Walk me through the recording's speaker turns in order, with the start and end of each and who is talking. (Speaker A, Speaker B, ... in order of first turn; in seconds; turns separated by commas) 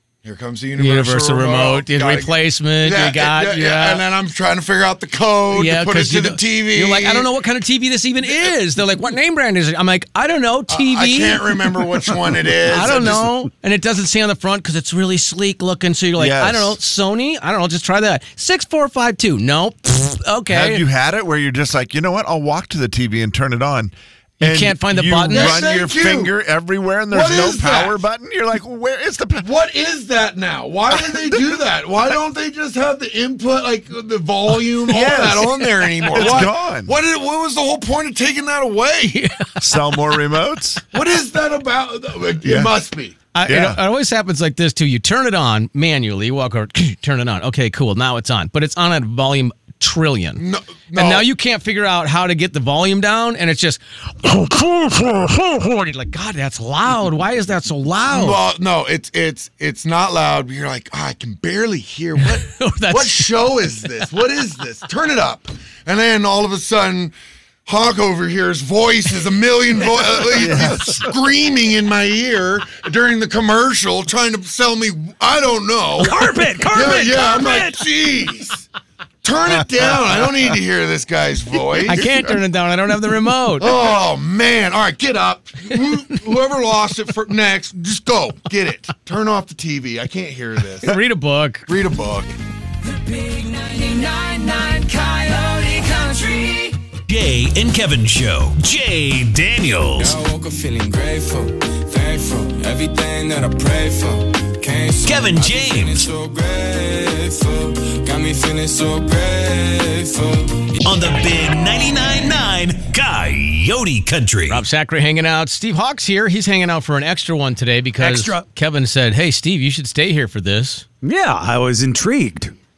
Speaker A: 0.2-7.3, Speaker B: 0.8-4.0, Speaker B: 5.5-11.9, Speaker A: 10.7-13.3, Speaker B: 12.6-20.8, Speaker C: 16.2-16.8, Speaker C: 20.5-29.5, Speaker B: 24.4-25.8, Speaker A: 25.3-26.3, Speaker A: 27.1-27.9, Speaker A: 29.4-39.2, Speaker C: 34.9-37.0, Speaker B: 36.0-36.5, Speaker B: 39.1-40.0, Speaker C: 39.6-40.8, Speaker A: 40.9-43.2, Speaker C: 42.4-42.7, Speaker B: 43.3-50.4, Speaker C: 43.5-43.8, Speaker A: 50.4-51.3, Speaker B: 50.9-58.4, Speaker A: 58.1-67.1, Speaker B: 62.2-63.6, Speaker A: 67.7-78.7, Speaker C: 70.3-71.1, Speaker D: 76.0-77.8, Speaker A: 79.2-82.1, Speaker B: 81.8-83.8, Speaker A: 83.6-91.0, Speaker B: 90.8-91.7, Speaker A: 91.7-92.3, Speaker E: 92.9-96.8, Speaker F: 97.1-100.2, Speaker E: 100.0-111.2, Speaker F: 105.0-106.1, Speaker F: 110.8-114.7, Speaker B: 114.5-120.8, Speaker D: 118.0-118.5, Speaker D: 121.0-122.5